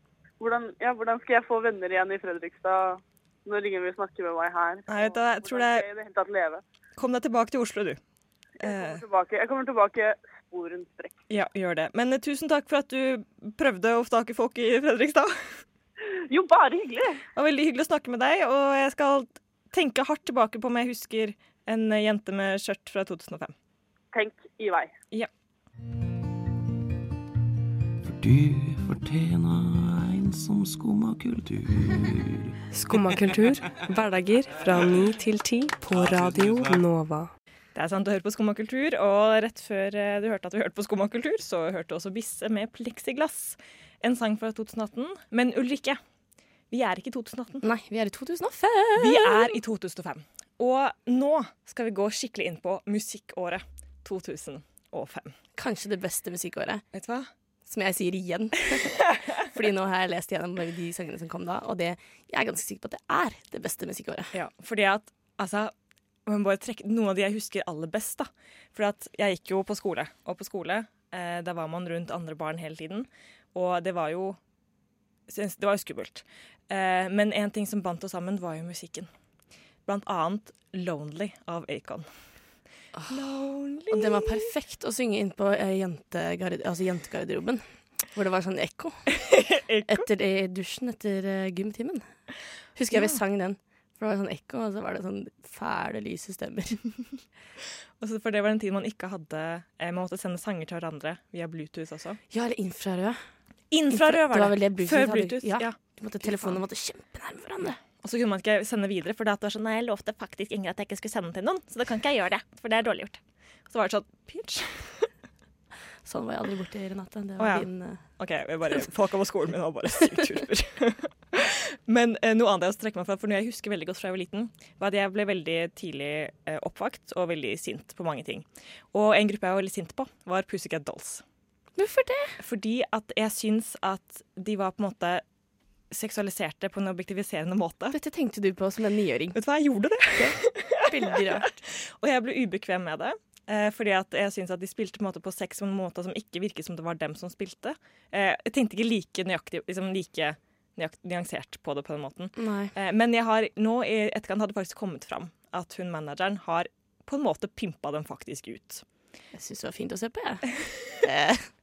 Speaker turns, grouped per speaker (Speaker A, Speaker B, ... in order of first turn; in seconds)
Speaker A: 0.4-6.6, 8.6-11.2, 16.0-17.2, 24.1-24.9
Speaker B: 4.9-5.9, 7.0-8.0, 8.6-9.0, 11.3-15.6, 17.4-23.5, 37.8-46.0, 46.7-47.6, 49.0-55.3, 56.9-57.3, 64.3-65.7, 66.3-74.4, 75.3-79.1, 79.9-82.1, 83.1-84.5, 89.2-90.1, 92.9-93.2, 98.0-102.2, 103.7-106.6, 108.0-115.1, 117.4-131.2, 132.4-135.2, 135.9-138.0, 139.3-158.8
Speaker C: 28.0-32.6
Speaker D: 32.7-37.3
Speaker E: 47.6-49.5, 55.6-56.8, 57.7-64.3, 83.9-89.1, 89.9-92.1, 92.8-96.8, 102.3-103.2, 103.9-107.8, 116.0-118.0, 131.8-132.4, 137.9-139.4, 140.2-141.5, 152.4-152.7, 159.3-161.5